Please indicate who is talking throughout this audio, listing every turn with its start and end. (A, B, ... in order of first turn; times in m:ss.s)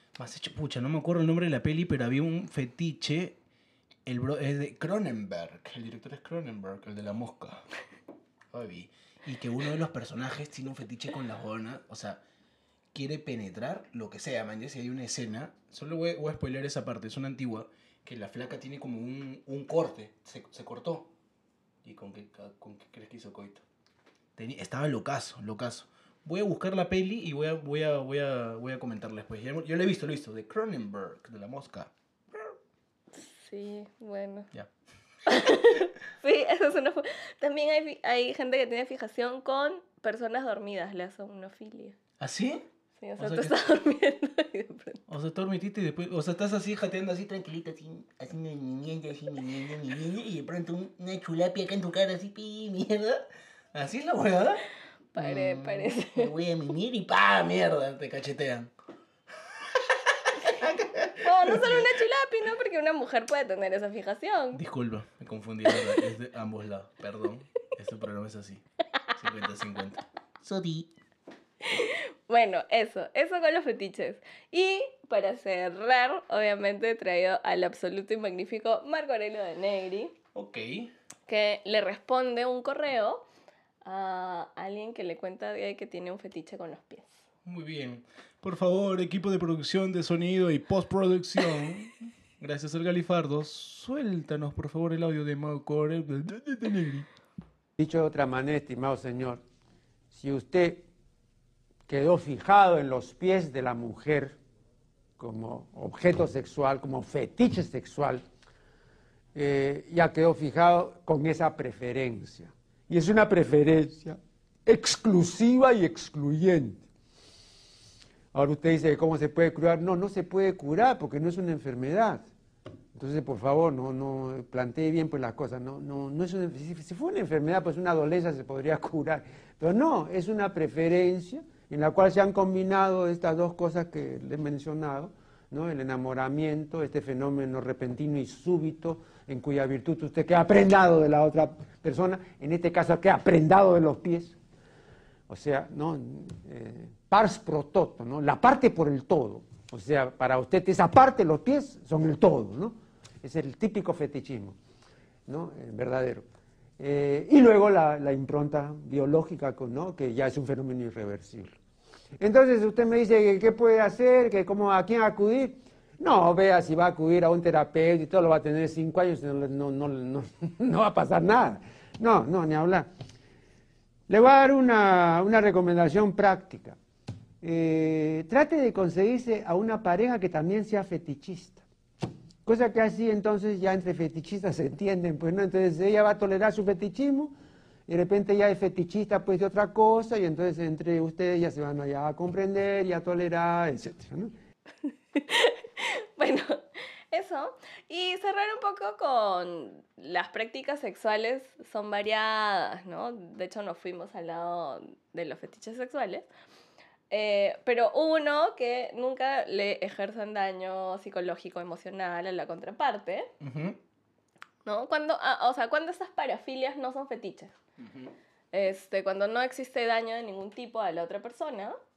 0:00.2-0:03.4 A
0:04.0-0:07.6 A
0:08.5-0:12.2 A
0:12.9-0:21.1 A
0:21.8-0:23.6 A
0:24.4-0:32.5 A
0:33.1-0:34.5 B
0:35.2-0:42.0 B
0:42.2-0:42.6 A
0:43.0-0:45.0 B
0:43.2-0:43.6 A
0:45.1-0:53.2 A
0:53.7-0:54.6 A
0:55.1-0:56.3 B
0:55.2-0:58.7 A
0:59.7-1:01.9 A
1:01.2-1:04.6 B
1:04.5-1:08.6 A
1:09.1-1:10.9 A
1:11.6-1:20.1 B
1:20.3-1:20.9 A
1:21.3-1:23.2 B
1:23.8-1:27.2 B
1:27.4-1:37.1 A
1:37.8-1:39.4 C
1:40.1-1:40.9 C
1:41.9-1:44.4 C
1:45.2-1:48.2 C
1:49.3-1:56.8 C
1:58.3-2:02.3 C
2:02.9-2:24.4 C
2:25.3-2:34.6 C
2:35.3-2:36.2 C
2:36.8-2:41.6 C
2:42.2-2:52.9 C
2:54.1-2:56.8 C
2:57.4-3:01.6 C
3:02.4-3:07.3 C
3:07.9-3:14.3 C
3:15.1-3:26.2 B
3:27.1-3:33.3 B
3:33.4-3:33.8 A
3:34.6-3:37.5 B
3:37.8-3:38.1 A
3:38.5-3:41.8 B